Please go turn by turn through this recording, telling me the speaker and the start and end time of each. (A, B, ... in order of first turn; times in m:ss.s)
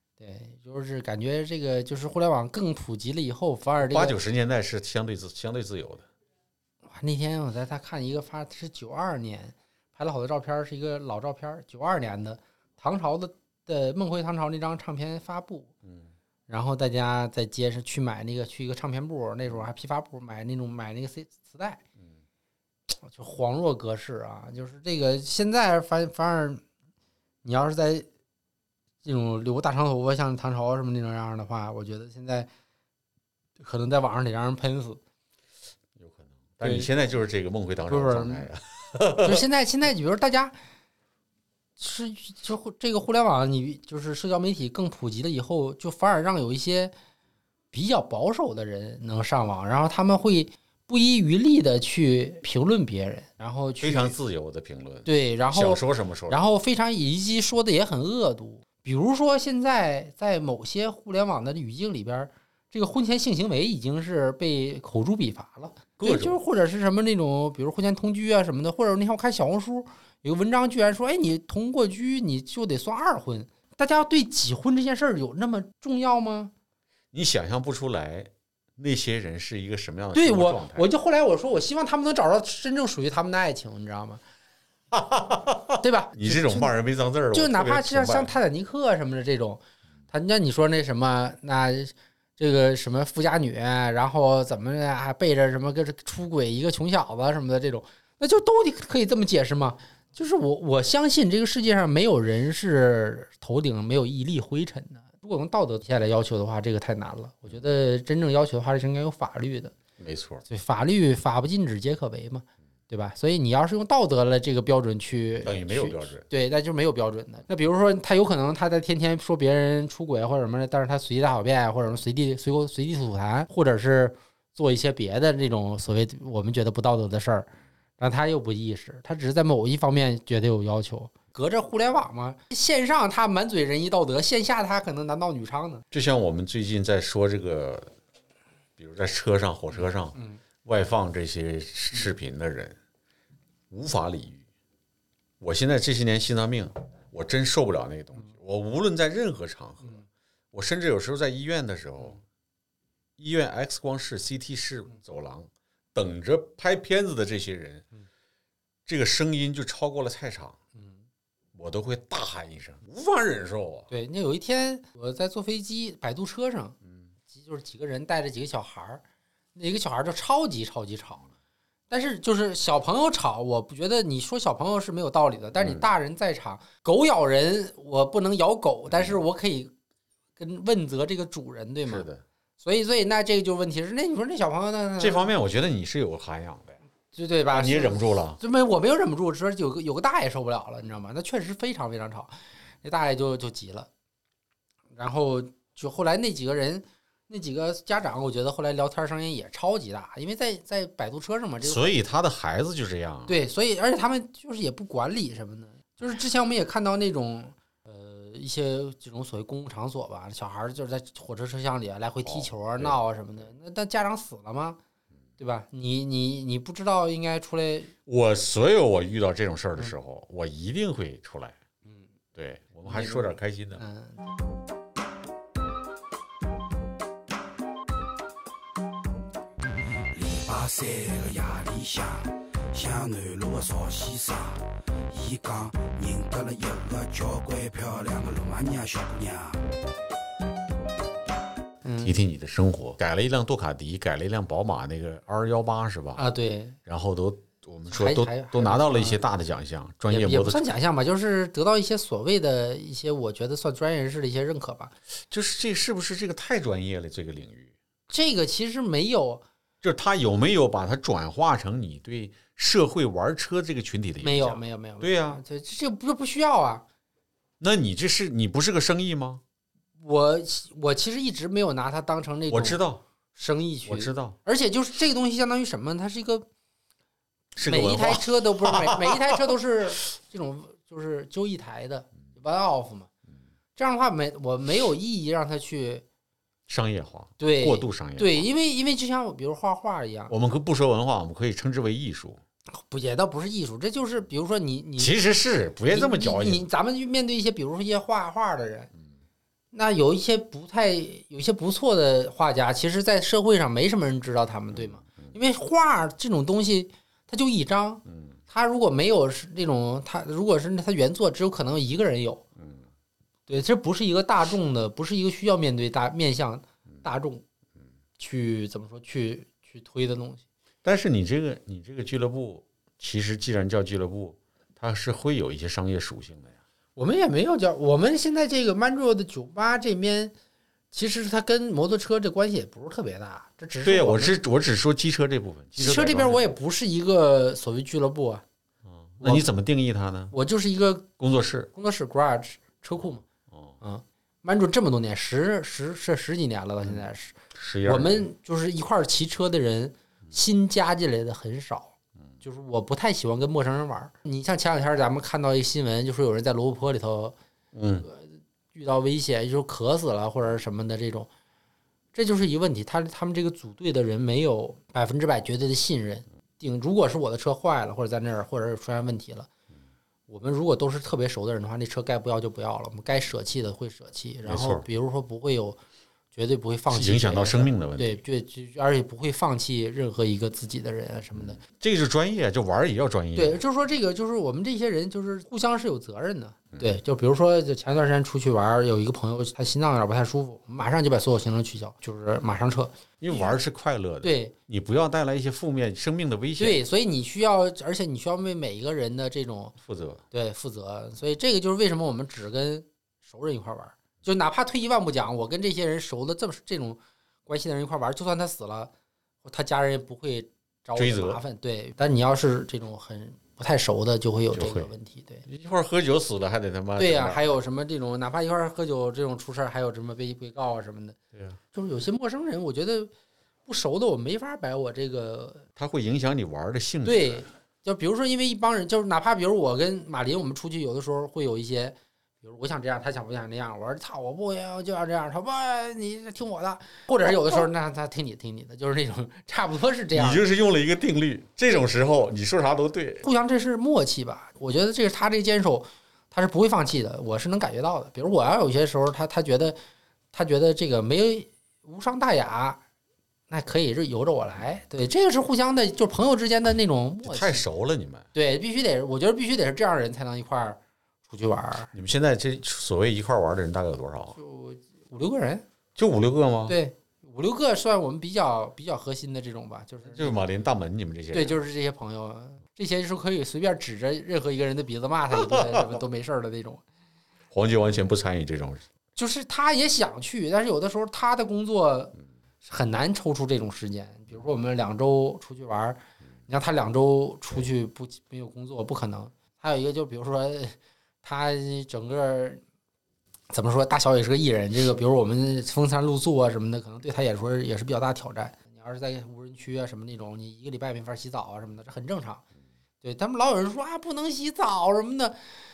0:00.2-0:04.2 A
0:03.8-0:06.1 B
0:06.8-0:15.7 A
0:15.8-0:16.1 B
0:16.5-0:21.8 A
0:23.0-0:26.6 A
0:27.4-0:28.1 A
0:29.0-0:32.5 A
0:33.6-0:35.0 A
0:36.0-0:39.4 B
0:36.6-0:36.9 A
0:37.9-0:38.5 A
0:39.2-0:40.6 A
0:41.8-0:46.9 A
0:47.7-0:54.1 A
0:53.8-0:56.4 B
0:55.1-1:16.5 A
1:06.0-1:06.4 B
1:17.1-1:20.9 B
1:20.1-1:24.2 A
1:24.9-1:28.4 B
1:25.8-1:26.7 A
1:27.3-1:49.7 A
1:50.0-1:50.4 B
1:50.5-2:15.8 A
1:55.4-1:56.3 B
2:15.9-2:17.9 B
2:18.8-2:22.8 B
2:20.2-2:20.4 A
2:23.7-2:24.4 B
2:25.4-2:30.0 B
2:30.5-2:32.2 B
2:33.2-2:37.9 B
2:38.9-2:40.6 B
2:40.8-2:41.0 A
2:41.5-2:43.9 B
2:43.9-2:49.0 A
2:46.8-2:47.1 B
2:49.6-2:51.3 A
2:51.9-2:59.7 A
2:55.6-2:55.9 B
2:58.9-2:59.2 B
3:00.4-3:02.1 A
3:01.9-3:02.2 B
3:02.6-3:05.3 A
3:05.0-3:06.8 B
3:07.1-3:13.9 A
3:07.5-3:08.4 B
3:15.0-3:21.9 A
3:21.6-3:23.4 B
3:23.3-3:34.8 A
3:32.2-3:33.0 B
3:35.4-3:37.9 A
3:38.1-3:41.6 B
3:42.4-3:43.8 B
3:42.8-3:44.3 A
3:50.1-3:59.6 C
4:01.8-4:02.1 A
4:02.0-4:06.2 B
4:06.2-4:06.8 A
4:06.9-4:10.7 B
4:07.9-4:09.2 A
4:10.1-4:14.9 A
4:15.3-4:17.8 B
4:18.1-4:19.4 A
4:19.8-4:25.4 B
4:24.2-4:26.8 A
4:27.6-4:29.4 B
4:30.0-4:32.8 A
4:32.5-4:33.0 B
4:33.4-4:36.5 A
4:33.9-4:34.4 B
4:37.6-4:39.5 B
4:37.6-4:43.1 A
4:43.8-4:46.0 A
4:46.7-4:48.5 B
4:47.4-4:50.3 A
4:50.3-4:52.4 B
4:52.7-4:55.2 A
4:55.0-4:56.6 B
4:55.9-4:58.9 A
4:59.7-5:12.4 A
5:04.7-5:05.4 B
5:08.1-5:08.4 B
5:12.6-5:12.9 B
5:13.5-5:17.4 A
5:18.2-5:20.4 A
5:20.8-5:26.6 B
5:27.0-5:30.3 A
5:30.9-5:34.4 A
5:33.8-5:36.5 B
5:35.8-5:38.4 A
5:38.8-5:40.3 B
5:39.2-5:39.5 A
5:40.3-5:41.1 A
5:41.2-5:41.7 B
5:41.7-5:43.2 A
5:43.0-5:43.8 B
5:43.8-5:57.4 A
5:46.8-5:48.3 B
5:57.7-5:58.1 B
5:58.0-6:01.3 A
6:02.1-6:09.5 A
6:10.3-6:15.8 A
6:14.5-6:14.9 B
6:16.3-6:21.6 A
6:16.9-6:18.2 B
6:21.4-6:23.6 B
6:23.4-6:33.6 A
6:33.2-6:36.8 B
6:34.2-6:34.5 A
6:36.6-6:39.8 A
6:39.8-6:40.2 B
6:40.3-6:48.9 A
6:49.4-6:55.4 A
6:51.0-6:51.4 B
6:54.5-6:54.9 B
6:55.5-6:57.5 B
6:57.0-7:01.2 A
7:01.3-7:01.6 B
7:01.7-7:03.1 A
7:03.7-7:05.7 A
7:05.8-7:07.5 B
7:07.0-7:20.4 A
7:20.1-7:23.2 B
7:23.2-7:29.8 A
7:30.3-7:32.8 A
7:33.5-7:37.6 A
7:37.2-7:38.3 B
7:38.3-7:41.9 A
7:41.9-7:44.4 B
7:44.4-7:45.6 A
7:46.0-7:46.8 B
7:46.7-7:50.4 A
7:50.0-7:51.6 B
7:51.3-7:56.8 A
7:55.5-7:55.9 B
7:57.5-7:58.8 B
7:59.2-8:12.6 A
8:13.5-8:22.4 A
8:23.0-8:25.5 A